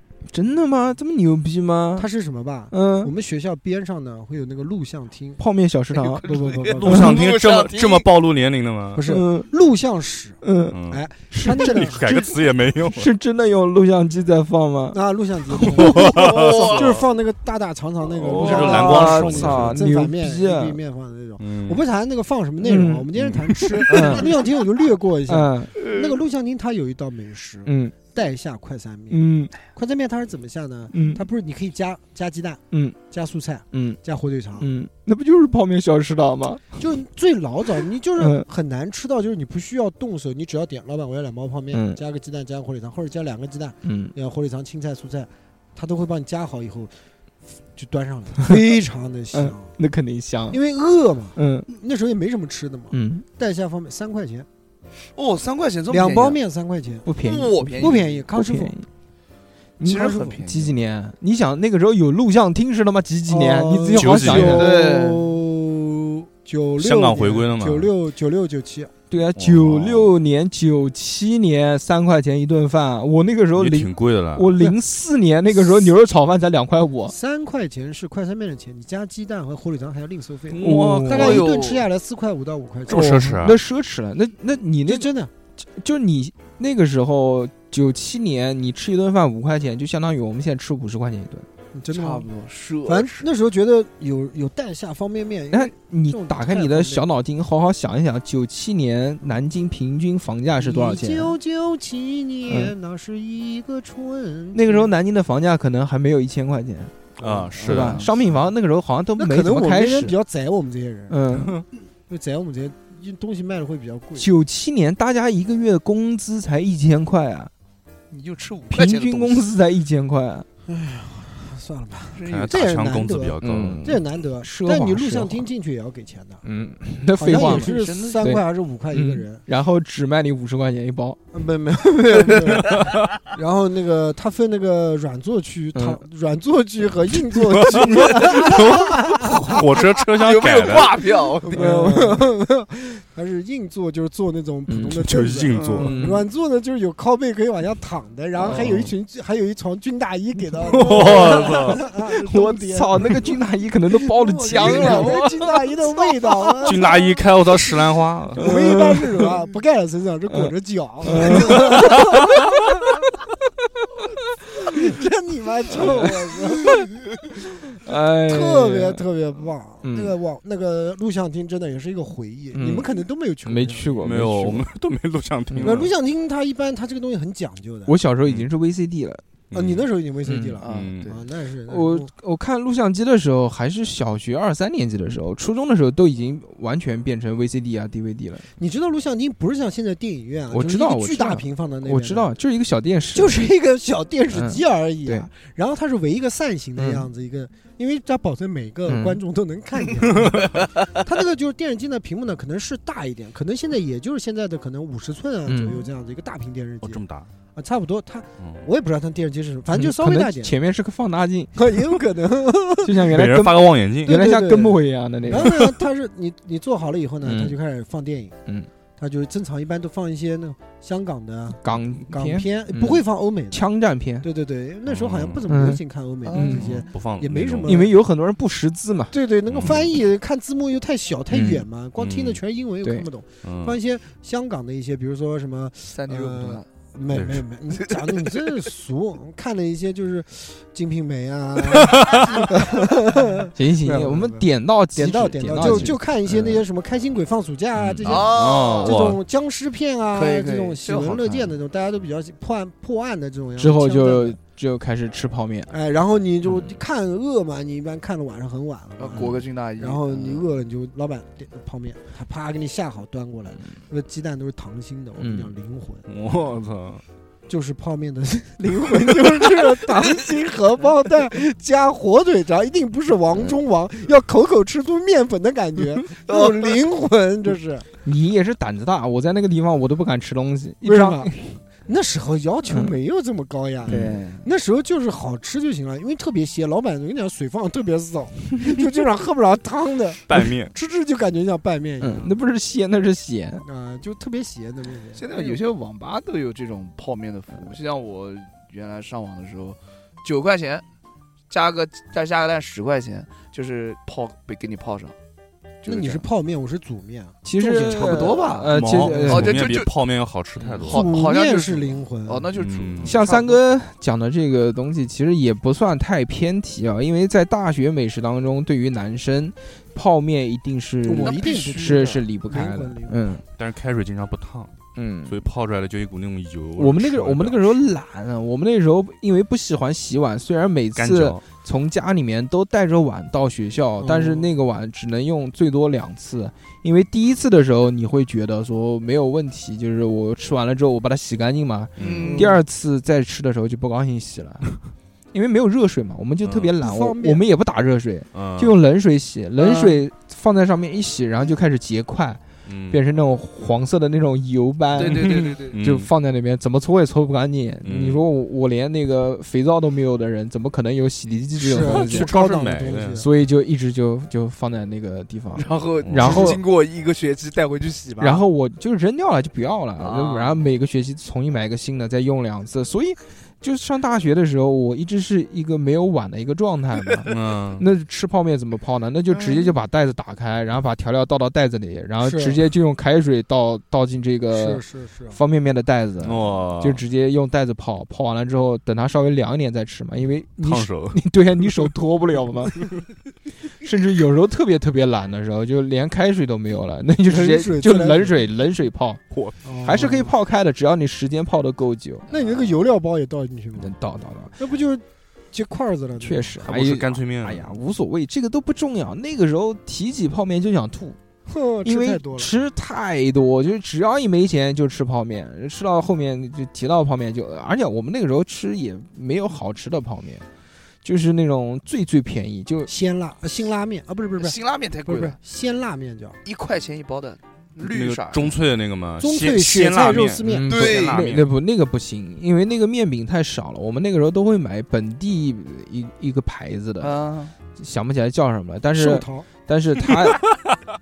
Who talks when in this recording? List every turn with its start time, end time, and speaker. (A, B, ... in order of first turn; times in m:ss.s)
0:00.3-0:02.1 A
0:02.0-0:05.4 B
0:02.7-0:03.1 A
0:05.4-0:06.2 A
0:06.0-0:08.1 C
0:06.1-0:07.2 B
0:06.7-0:09.0 D
0:08.9-0:12.3 B
0:09.0-0:09.5 A
0:10.4-0:10.8 A
0:10.7-0:11.0 D
0:11.3-0:15.0 A
0:11.6-0:13.1 D
0:14.9-0:34.7 B
0:15.5-0:15.8 A
0:15.7-0:17.0 D
0:16.0-0:17.0 C
0:18.1-0:19.8 D
0:18.4-0:20.8 A
0:18.4-0:18.8 C
0:21.4-0:21.8 D
0:22.6-0:23.0 A
0:23.2-0:23.8 D
0:23.9-0:24.3 A
0:25.3-0:25.7 A
0:25.8-0:26.2 C
0:27.6-0:27.9 A
0:29.1-0:29.5 A
0:30.9-0:31.2 A
0:32.7-0:33.0 A
0:33.7-0:34.0 A
0:34.6-0:36.8 A
0:36.8-0:46.9 B
0:38.2-0:38.4 A
0:41.7-0:42.0 A
0:43.8-0:44.1 A
0:47.7-0:49.7 B
0:49.3-0:50.6 A
0:50.5-0:54.5 B
0:51.4-0:51.7 A
0:52.9-0:53.2 A
0:55.2-0:56.4 C
0:55.9-0:57.0 B
0:57.0-0:58.8 A
0:57.2-0:58.3 C
0:57.6-0:58.7 B
0:59.8-1:04.7 A
0:59.8-1:00.7 C
0:59.9-1:00.3 B
1:03.3-1:08.9 B
1:04.0-1:04.7 D
1:04.3-1:05.4 C
1:06.8-1:07.9 D
1:09.1-1:17.1 A
1:09.4-1:10.1 D
1:13.5-1:14.6 D
1:17.1-1:23.4 B
1:20.5-1:21.4 D
1:20.6-1:21.4 A
1:21.0-1:21.9 C
1:22.9-1:23.6 D
1:22.9-1:25.1 A
1:24.8-1:25.3 B
1:25.7-1:31.5 A
1:31.7-1:32.3 B
1:31.9-1:33.3 C
1:32.8-1:37.0 B
1:35.5-1:41.3 A
1:40.6-1:44.9 B
1:42.5-1:42.7 A
1:44.5-1:46.9 A
1:47.2-1:48.1 D
1:47.2-1:48.2 C
1:47.6-1:50.1 A
1:49.2-1:51.2 B
1:51.1-1:51.6 A
1:51.3-1:51.6 D
1:52.1-1:54.3 B
1:54.2-1:57.5 A
1:58.1-1:59.5 C
1:58.7-2:00.5 A
2:00.7-2:06.4 B
2:02.1-2:02.9 C
2:02.2-2:03.8 D
2:03.4-2:05.5 A
2:06.4-2:11.2 A
2:07.2-2:09.4 B
2:07.3-2:08.3 C
2:11.3-2:19.7 B
2:15.7-2:16.0 A
2:17.5-2:21.0 D
2:19.8-2:21.7 C
2:21.5-2:33.2 B
2:21.5-2:22.2 A
2:24.7-2:25.0 A
2:24.9-2:25.9 D
2:25.8-2:26.2 A
2:28.4-2:28.9 D
2:30.7-2:31.8 D
2:30.7-2:36.0 A
2:34.0-2:37.7 B
2:34.6-2:34.9 C
2:36.6-2:38.4 D
2:38.4-2:39.3 A
2:38.4-2:42.5 B
2:41.0-2:42.6 A
2:41.6-2:42.0 D
2:44.6-2:44.9 A
2:44.6-2:46.9 B
2:45.7-2:46.8 A
2:47.8-2:49.0 A
2:48.3-2:54.0 B
2:49.8-2:50.1 A
2:52.5-2:52.9 A
2:53.4-2:54.7 A
2:54.0-2:55.9 D
2:55.5-2:55.9 A
2:55.6-2:57.9 B
2:57.8-2:59.2 A
2:59.5-2:59.9 D
2:59.5-3:02.1 B
3:00.2-3:00.9 A
3:00.6-3:01.2 C
3:00.6-3:01.1 D
3:01.7-3:08.5 A
3:08.6-3:12.3 B
3:10.5-3:13.5 A
3:13.1-3:27.0 B
3:14.3-3:15.3 A
3:16.8-3:17.1 A
3:18.9-3:19.2 A
3:20.2-3:20.6 D
3:25.5-3:25.9 A
3:26.8-3:27.3 D
3:27.6-3:30.5 B
3:28.4-3:28.7 D
3:29.7-3:31.7 A
3:31.6-3:33.1 B
3:32.8-3:35.7 A
3:33.0-3:34.1 D
3:34.0-3:38.4 B
3:37.2-3:37.6 A
3:39.0-3:43.6 B
3:41.6-3:44.2 A
3:44.2-3:47.9 B
3:44.9-3:45.4 D
3:45.5-3:45.8 A
3:46.2-3:46.6 C
3:46.3-3:46.6 A
3:46.6-3:47.8 D
3:47.6-3:49.1 A
3:49.1-4:14.4 B
3:49.5-3:49.9 D
3:51.3-3:51.6 A
3:52.0-3:52.4 D
3:53.4-3:53.8 D
3:55.9-3:56.7 C
3:57.1-3:57.4 D
3:57.7-3:58.6 C
4:01.7-4:02.4 D
4:03.5-4:06.6 A
4:07.8-4:09.2 D
4:08.0-4:09.0 C
4:10.1-4:11.5 C
4:13.6-4:15.7 A
4:15.7-4:26.0 B
4:19.0-4:20.4 C
4:25.2-4:25.5 A
4:26.1-4:27.0 D
4:27.5-4:37.8 B
4:36.3-4:36.5 C
4:38.0-4:41.6 A
4:40.8-4:41.3 B
4:41.9-4:52.4 B
4:42.7-4:43.0 A
4:43.8-4:44.4 C
4:43.9-4:44.2 A
4:50.3-4:50.7 D
4:52.0-4:53.6 A
4:53.6-4:55.6 B
4:55.1-5:00.8 C
5:01.5-5:05.2 C
5:05.8-5:06.2 C
5:05.8-5:08.4 B
5:07.4-5:09.7 A
5:07.8-5:09.9 C
5:08.7-5:11.1 D
5:10.6-5:13.6 C
5:10.8-5:12.5 B
5:12.5-5:13.1 D
5:13.0-5:23.4 A
5:21.0-5:23.3 B
5:21.2-5:22.1 C
5:23.5-5:24.7 D
5:25.0-5:25.4 A
5:25.3-5:27.8 D
5:26.8-5:44.8 A
5:31.0-5:31.4 D
5:34.0-5:34.5 B
5:42.0-5:42.3 D
5:42.0-5:42.6 C
5:42.2-5:42.6 B
5:45.3-6:02.3 A
5:46.4-5:46.7 D
5:46.8-5:47.4 B
5:48.3-5:48.7 D
5:49.6-5:49.9 B
5:52.6-5:53.0 D
5:54.9-5:55.8 C
5:55.0-5:56.1 D
5:57.8-5:58.2 D
6:01.6-6:03.3 B
6:01.8-6:03.2 D
6:03.2-6:06.6 A
6:05.5-6:08.4 C
6:06.0-6:06.6 D
6:08.2-6:32.9 A
6:10.0-6:10.6 C
6:17.2-6:17.8 D
6:19.3-6:19.7 C
6:22.2-6:22.6 B
6:24.5-6:25.4 B
6:26.2-6:27.0 D
6:30.6-6:31.2 D
6:33.8-6:39.2 A
6:37.2-6:38.4 B
6:39.3-6:39.6 D
6:39.6-6:40.3 B
6:39.8-6:42.7 A
6:42.3-6:44.0 B
6:43.8-6:44.5 A
6:44.6-6:46.6 B
6:46.2-6:51.2 A
6:46.6-6:47.7 D
6:51.5-6:52.5 B
6:51.8-7:00.4 A
7:01.0-7:02.9 A
7:02.9-7:06.4 B
7:04.4-7:05.4 C
7:06.4-7:08.6 C
7:07.8-7:11.4 D
7:09.2-7:10.9 B
7:10.4-7:17.2 A
7:10.7-7:11.3 C
7:17.0-7:17.5 C
7:17.7-7:20.4 A
7:18.9-7:19.5 B